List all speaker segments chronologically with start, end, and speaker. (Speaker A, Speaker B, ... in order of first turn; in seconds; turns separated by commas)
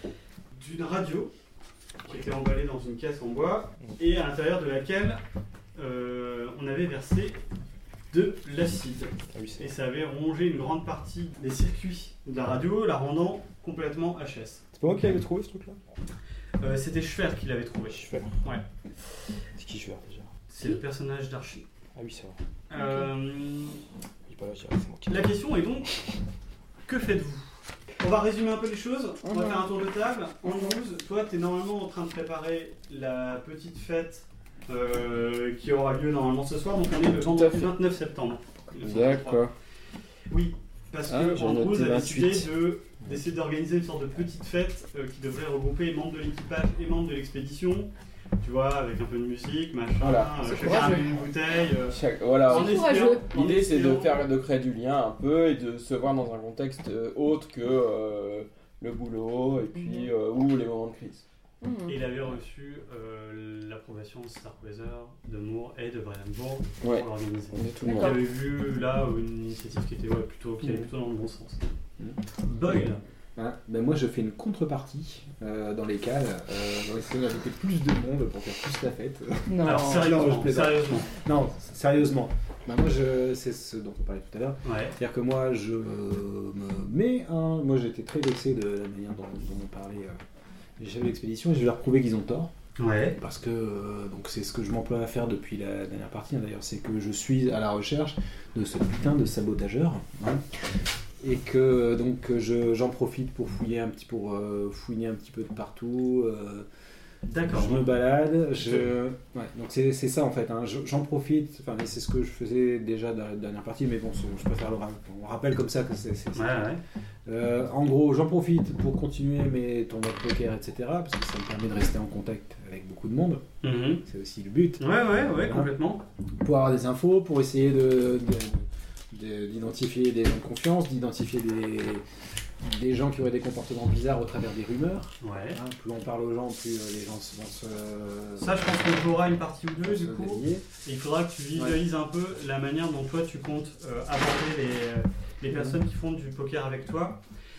Speaker A: 0.5-1.3, Speaker A: 2.0-5.2, Speaker A: 5.8-7.4, Speaker A: 8.1-15.2, Speaker B: 9.3-9.7, Speaker B: 14.8-15.8, Speaker A: 16.6-18.6, Speaker B: 17.9-18.3, Speaker B: 19.6-20.3, Speaker A: 20.5-21.6, Speaker B: 21.9-22.4, Speaker A: 22.7-23.8, Speaker C: 22.7-23.1, Speaker B: 24.3-25.4, Speaker A: 25.1-25.9, Speaker A: 26.9-39.4, Speaker C: 29.2-29.6, Speaker C: 30.5-30.7, Speaker D: 37.1-37.8, Speaker D: 38.8-39.5, Speaker A: 40.3-54.2, Speaker D: 41.1-42.5, Speaker D: 50.0-50.8, Speaker C: 50.4-51.2, Speaker D: 51.9-61.2, Speaker C: 52.5-53.2, Speaker C: 59.7-60.1, Speaker C: 61.6-62.0, Speaker A: 61.9-71.6, Speaker D: 66.8-68.2, Speaker C: 67.8-68.2, Speaker A: 72.4-73.0, Speaker E: 73.4-90.2, Speaker C: 79.5-80.3, Speaker A: 79.6-81.1, Speaker A: 84.6-84.9, Speaker E: 90.8-92.5, Speaker A: 92.8-93.2, Speaker E: 93.2-100.4, Speaker E: 101.2-106.7, Speaker A: 107.3-108.0, Speaker E: 107.3-116.6, Speaker A: 116.3-116.8, Speaker E: 117.3-123.5, Speaker A: 123.6-124.0, Speaker E: 124.0-125.7, Speaker A: 124.8-126.0, Speaker E: 126.4-132.0, Speaker E: 132.6-138.8, Speaker A: 135.2-135.6, Speaker A: 138.4-147.2, Speaker E: 139.8-140.6, Speaker E: 141.6-141.8, Speaker E: 145.5-145.8